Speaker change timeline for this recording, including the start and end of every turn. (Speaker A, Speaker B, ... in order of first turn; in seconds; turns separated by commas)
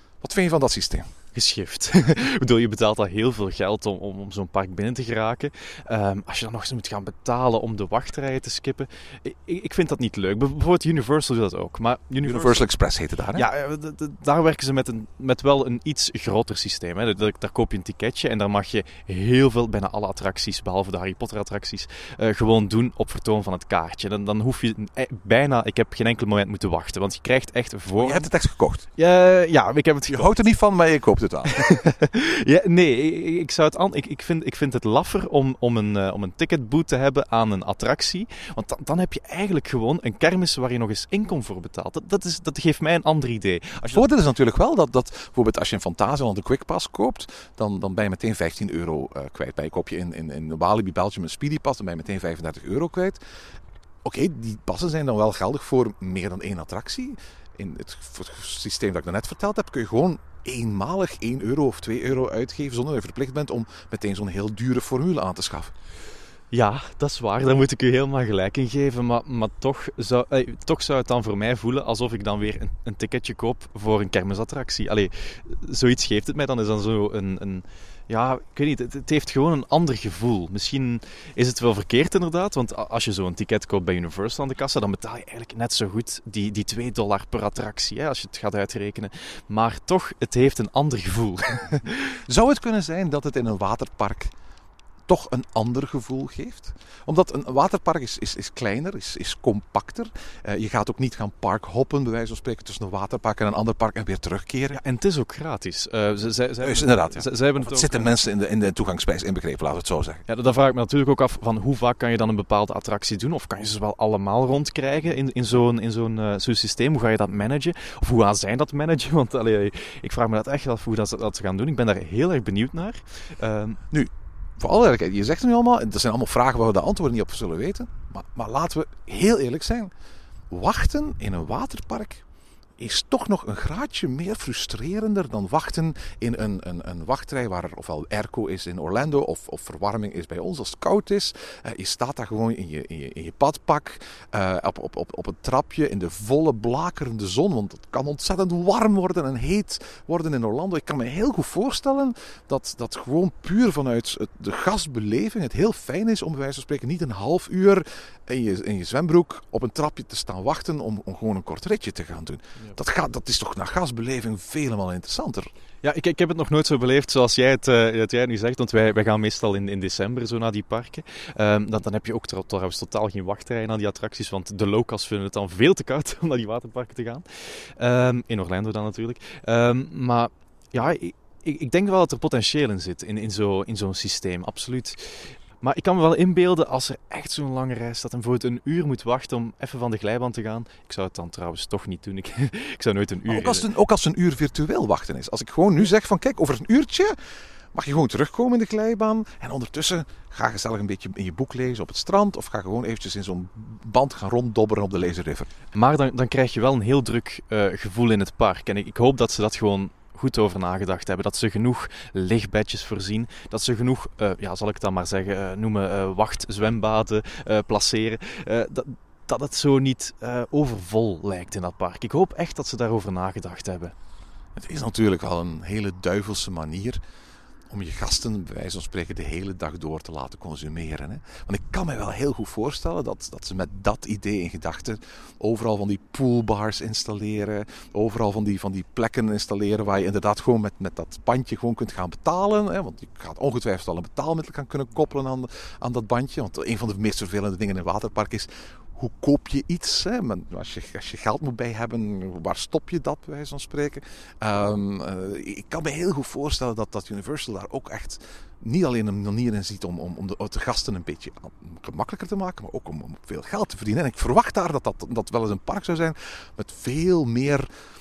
Speaker A: 0.2-1.1, Speaker B: 1.4-12.7, Speaker A: 12.2-13.5, Speaker B: 13.3-28.3, Speaker A: 28.0-28.9, Speaker B: 29.0-30.3, Speaker A: 30.1-31.6, Speaker B: 31.5-44.0, Speaker A: 43.9-53.2, Speaker A: 54.0-65.7, Speaker B: 66.5-92.0, Speaker A: 92.3-94.3, Speaker A: 95.1-104.8, Speaker B: 104.7-108.1, Speaker A: 106.6-110.2, Speaker B: 110.3-123.8, Speaker A: 123.9-129.9, Speaker A: 130.5-132.2, Speaker A: 132.8-165.5, Speaker B: 165.8-193.7, Speaker A: 193.3-197.2, Speaker A: 197.7-205.5, Speaker B: 205.7-223.9, Speaker A: 224.6-227.0, Speaker A: 227.7-267.7